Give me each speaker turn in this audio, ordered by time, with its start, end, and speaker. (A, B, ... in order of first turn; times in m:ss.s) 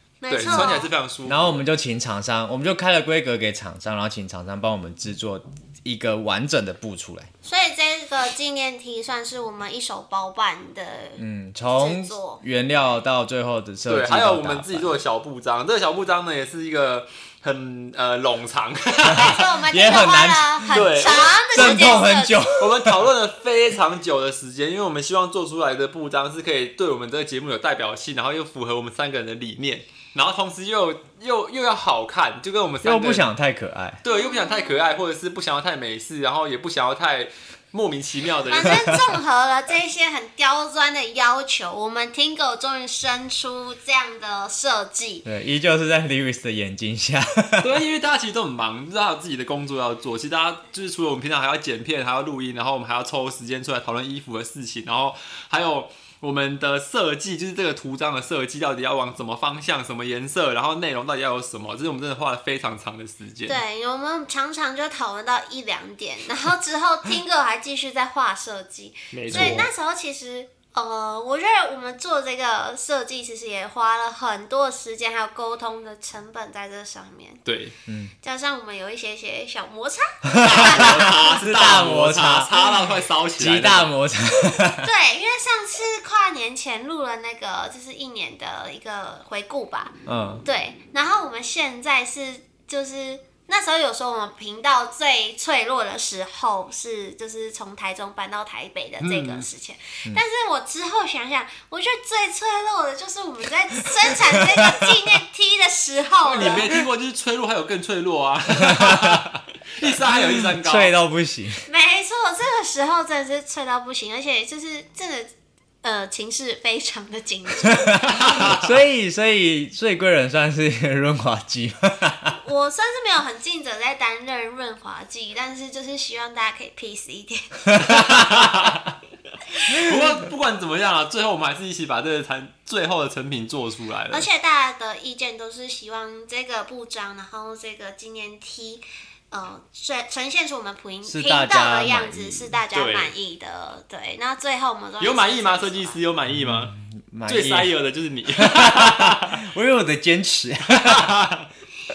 0:00.2-0:00.9 A
0:00.3-0:01.6 B
0:00.4-0:07.3 C
0:07.4-0:11.2 A
0:11.2-0:15.0 C
0:11.7-0:12.4 A
0:13.9-0:19.4 B
0:19.0-0:22.4 A
0:19.1-0:23.0 C
0:20.7-0:22.0 B
0:22.6-0:33.2 B
0:32.8-0:34.0 C
0:34.0-0:38.9 B
0:34.1-0:34.8 A
0:38.5-0:45.3 A
0:45.2-0:47.7 C
0:47.6-1:03.6 B
1:03.5-1:17.4 A
1:09.1-1:09.7 B
1:09.3-1:09.6 C
1:17.5-1:17.8 B
1:17.9-1:18.1 C
1:18.2-1:21.2 A
1:20.3-1:22.6 C
1:20.4-1:23.9 B
1:23.4-1:24.8 C
1:24.8-1:46.7 A
1:30.1-1:30.4 C
1:39.0-1:39.5 B
1:46.2-1:50.9 B
1:48.6-1:49.2 C
1:50.0-1:51.6 C
1:51.7-1:55.3 A
1:55.8-1:58.2 A
1:57.8-2:02.4 C
1:58.2-1:58.6 B
2:02.4-2:07.8 A
2:07.8-2:08.9 B
2:09.7-2:14.3 B
2:14.1-2:26.0 A
2:21.1-2:22.6 C
2:22.7-2:23.1 B
2:25.0-2:26.7 B
2:26.3-2:27.8 C
2:27.3-2:29.4 B
2:28.4-2:31.1 C
2:30.7-2:31.5 B